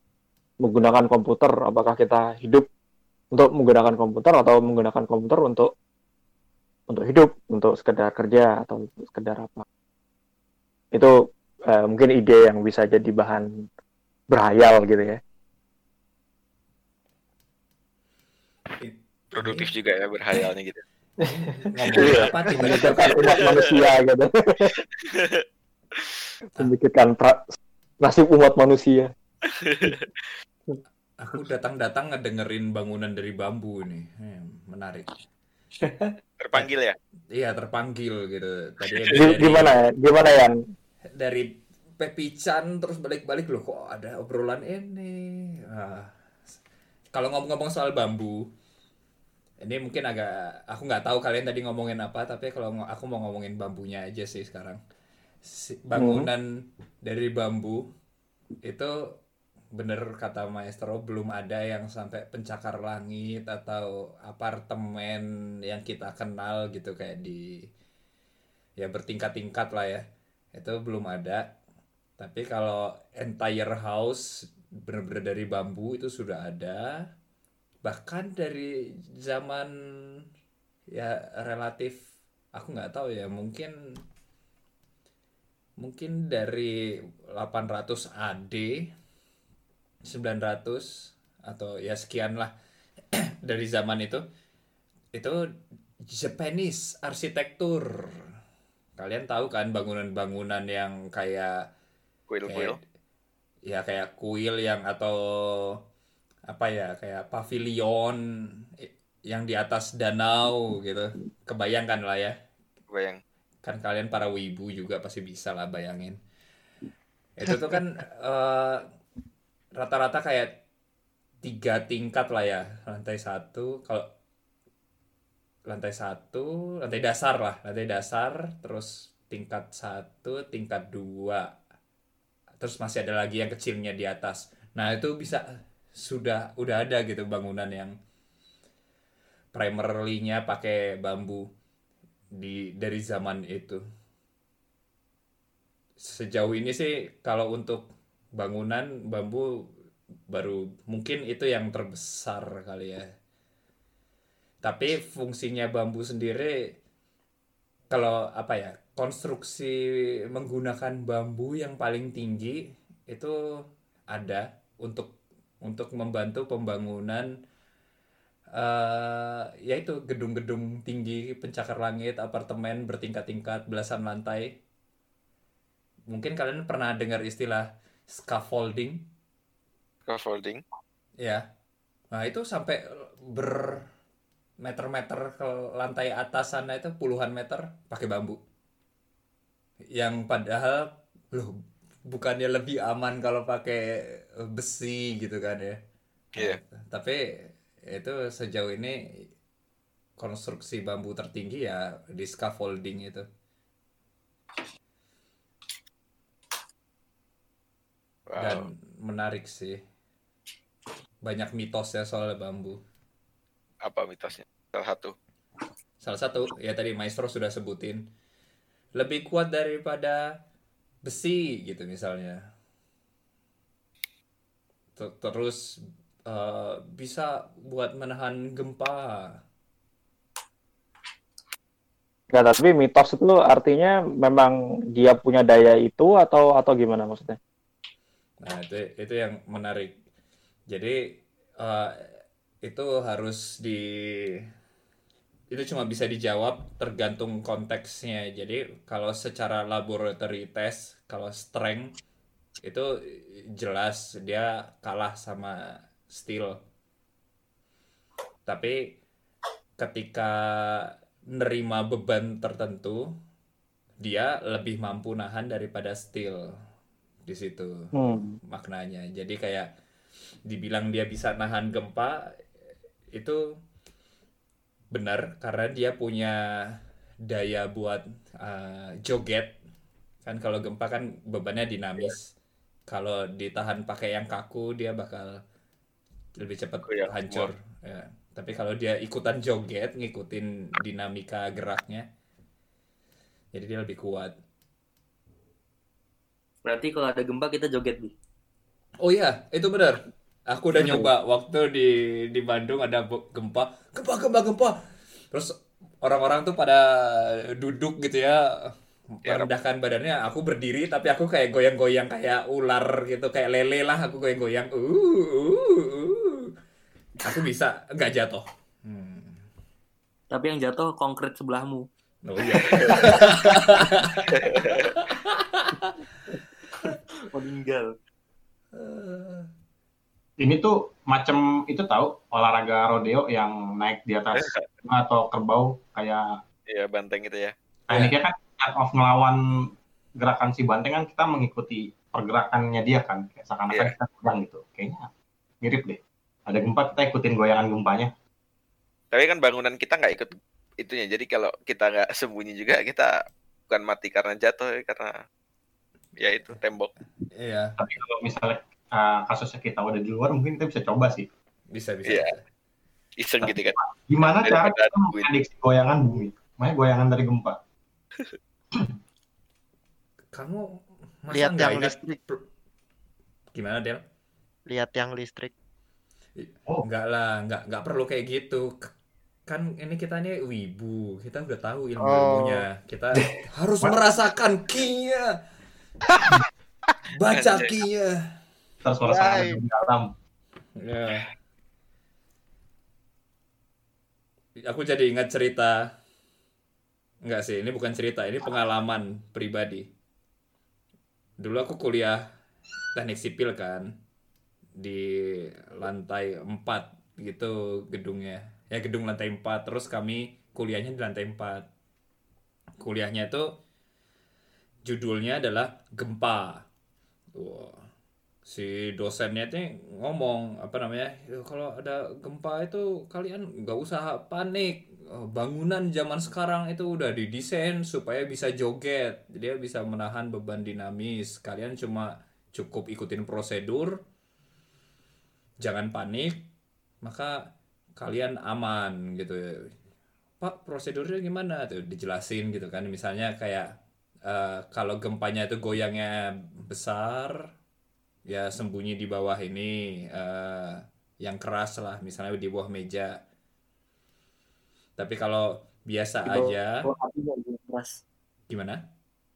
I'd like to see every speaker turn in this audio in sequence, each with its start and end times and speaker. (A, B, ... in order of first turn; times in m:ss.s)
0:00.6-0:02.7 A
0:03.3-0:05.7 A
0:06.9-0:09.7 A
0:11.7-0:13.5 A
0:14.3-0:15.2 A
0:18.8-0:19.7 B
0:19.3-0:20.8 C
0:21.6-0:23.6 B
0:22.0-0:24.8 A
0:22.0-0:23.8 C
0:25.0-0:25.4 C
0:26.6-0:29.1 A
0:29.5-0:30.3 C
0:31.2-0:35.1 B
0:36.4-0:37.0 C
0:37.3-0:39.8 B
0:39.1-0:40.6 A
0:41.2-0:46.1 B
0:47.1-0:48.5 B
0:49.6-0:54.8 B
0:55.4-0:56.4 B
0:56.0-0:56.3 A
0:57.0-0:57.9 B
0:58.6-0:58.9 B
0:59.8-1:07.7 B
1:08.8-1:10.0 B
1:10.6-1:11.5 B
1:12.2-1:14.3 B
1:14.8-1:16.8 B
1:17.8-1:19.7 B
1:20.9-1:22.0 B
1:22.6-1:23.7 B
1:25.8-1:26.8 B
1:27.3-1:28.9 B
1:30.1-1:32.5 B
1:33.4-1:34.2 B
1:36.1-1:38.2 B
1:39.0-1:41.7 B
1:42.3-1:42.8 C
1:42.5-1:42.8 B
1:43.6-1:45.8 B
1:46.5-1:48.2 B
1:48.8-1:52.4 B
1:52.9-1:53.2 C
1:53.6-1:56.2 B
1:57.4-1:58.8 B
1:59.8-2:00.5 B
2:01.4-2:04.0 B
2:05.7-2:11.5 B
2:12.6-2:17.9 B
2:19.5-2:21.4 B
2:22.3-2:23.8 B
2:26.0-2:29.7 B
2:30.3-2:33.0 B
2:34.6-2:36.7 B
2:37.9-2:39.8 B
2:40.3-2:43.4 B
2:44.1-2:47.3 B
2:48.5-2:54.6 B
2:56.1-2:59.1 B
3:00.1-3:00.6 C
3:01.2-3:01.4 B
3:02.1-3:03.9 B
3:04.6-3:08.4 B
3:09.9-3:15.8 B
3:16.4-3:17.2 B
3:17.9-3:19.0 B
3:20.2-3:23.3 B
3:28.3-3:28.7 C
3:28.4-3:29.8 B
3:31.2-3:32.8 B
3:33.8-3:35.2 C
3:36.0-3:38.0 B
3:39.0-3:40.2 B
3:41.0-3:42.4 B
3:45.0-3:49.4 B
3:52.3-3:57.4 A
3:58.4-4:00.0 B
4:00.7-4:04.4 B
4:05.5-4:11.9 B
4:12.6-4:15.6 B
4:16.1-4:16.6 B
4:18.5-4:18.9 B
4:19.8-4:23.1 B
4:24.0-4:26.5 B
4:27.3-4:29.7 B
4:28.0-4:28.4 A
4:30.5-4:32.2 B
4:33.1-4:33.4 B
4:34.9-4:36.8 B
4:37.3-4:39.6 B
4:40.2-4:42.3 B
4:42.9-4:45.4 B
4:46.4-4:52.1 B
4:46.9-4:47.5 C
4:53.5-4:54.4 B
4:56.6-4:58.1 D
4:59.0-5:04.8 B
5:00.8-5:01.1 D
5:05.3-5:16.5 B
5:17.2-5:19.4 B
5:20.3-5:21.9 D
5:22.2-5:25.9 B
5:22.6-5:23.6 D
5:24.4-5:24.9 C
5:27.3-5:27.9 D
5:28.7-5:29.5 B
5:30.4-5:36.2 E
5:34.4-5:34.7 C
5:36.7-5:38.1 C
5:37.9-5:39.4 E
5:40.2-5:45.1 E
5:45.6-5:48.1 E
5:49.1-5:55.2 C
5:56.2-5:56.9 C
5:57.3-5:57.8 B
5:57.8-6:01.3 E
6:01.7-6:02.4 B
6:02.0-6:02.3 C
6:03.2-6:03.8 C
6:03.4-6:07.6 E
6:04.4-6:05.3 C
6:10.3-6:12.0 B
6:11.3-6:12.2 F
6:13.5-6:14.0 B
6:14.7-6:15.5 F
6:16.4-6:18.9 B
6:19.5-6:25.3 B
6:22.0-6:22.7 F
6:26.1-6:26.4 F
6:27.1-6:28.2 B
6:27.3-6:27.8 C
6:28.8-6:30.1 E
6:29.1-6:29.6 F
6:30.8-6:31.3 B
6:34.7-6:35.8 B
6:37.2-6:39.9 B
6:41.4-6:42.2 B
6:43.0-6:43.9 B
6:44.8-6:51.7 B
6:52.8-6:53.6 B
6:54.8-6:56.6 B
6:57.4-6:57.8 B
6:58.5-7:14.0 B
7:15.6-7:16.5 B
7:17.0-7:19.7 B
7:20.4-7:23.7 B
7:24.3-7:27.4 B
7:28.3-7:33.2 B
7:35.0-7:36.9 B
7:36.3-7:38.0 D
7:38.5-7:38.8 B